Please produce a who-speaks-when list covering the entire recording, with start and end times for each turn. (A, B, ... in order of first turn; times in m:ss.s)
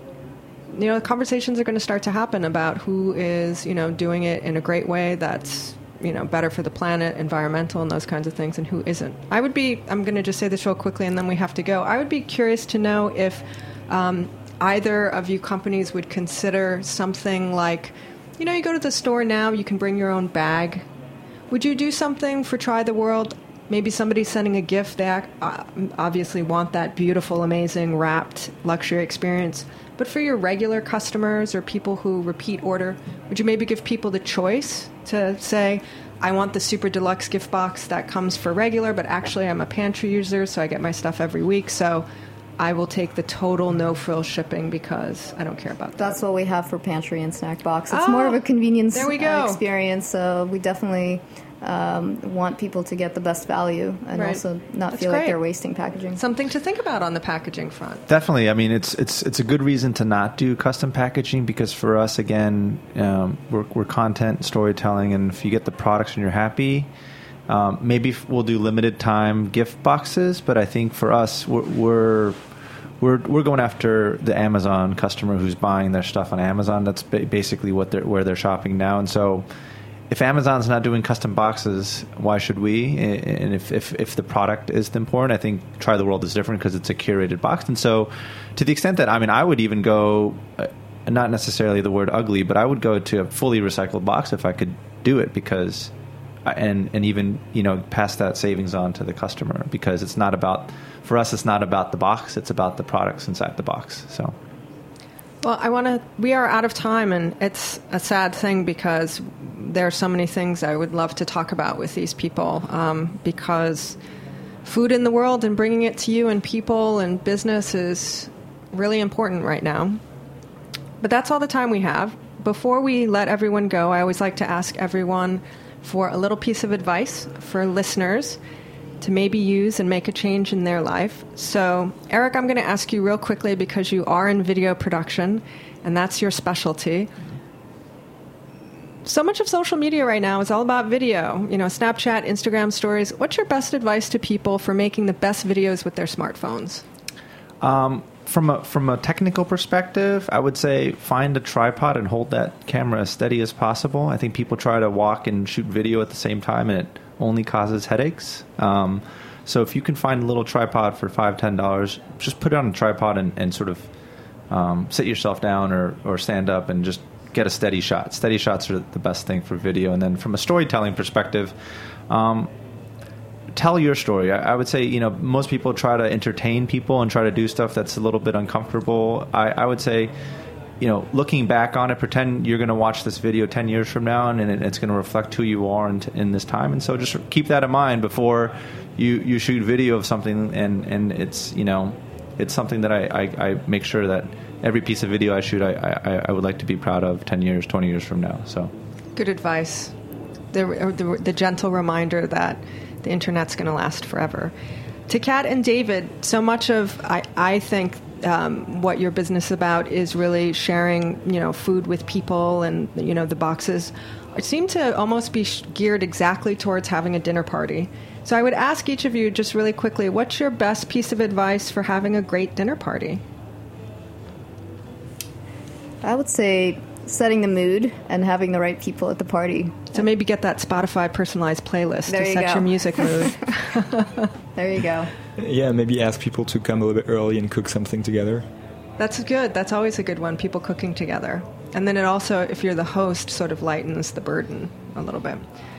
0:00.7-0:20.9 A
0:21.5-0:42.1 A
0:42.6-0:46.2 A
0:46.0-0:56.2 B
0:47.9-0:48.4 A
0:48.9-0:49.6 A
0:54.1-0:55.4 A
0:56.2-0:58.0 A
0:58.1-1:06.9 C
1:07.5-1:12.4 C
1:13.0-1:19.5 C
1:20.1-1:35.9 C
1:36.4-1:44.4 C
1:45.4-1:54.0 A
1:54.6-2:00.0 A
2:01.0-2:08.4 A
2:09.0-2:17.1 A
2:19.0-2:26.8 A
2:27.6-2:43.9 C
2:44.5-2:51.5 C
2:52.1-2:52.5 C
2:53.5-3:00.1 C
3:00.8-3:18.7 C
3:19.2-3:19.9 A
3:20.5-3:24.5 A
3:25.1-3:43.2 A
3:46.0-3:50.0 B
3:49.9-3:54.3 A
3:52.1-3:53.4 B
3:54.6-3:55.1 B
3:55.4-3:58.5 D
3:59.0-4:05.4 A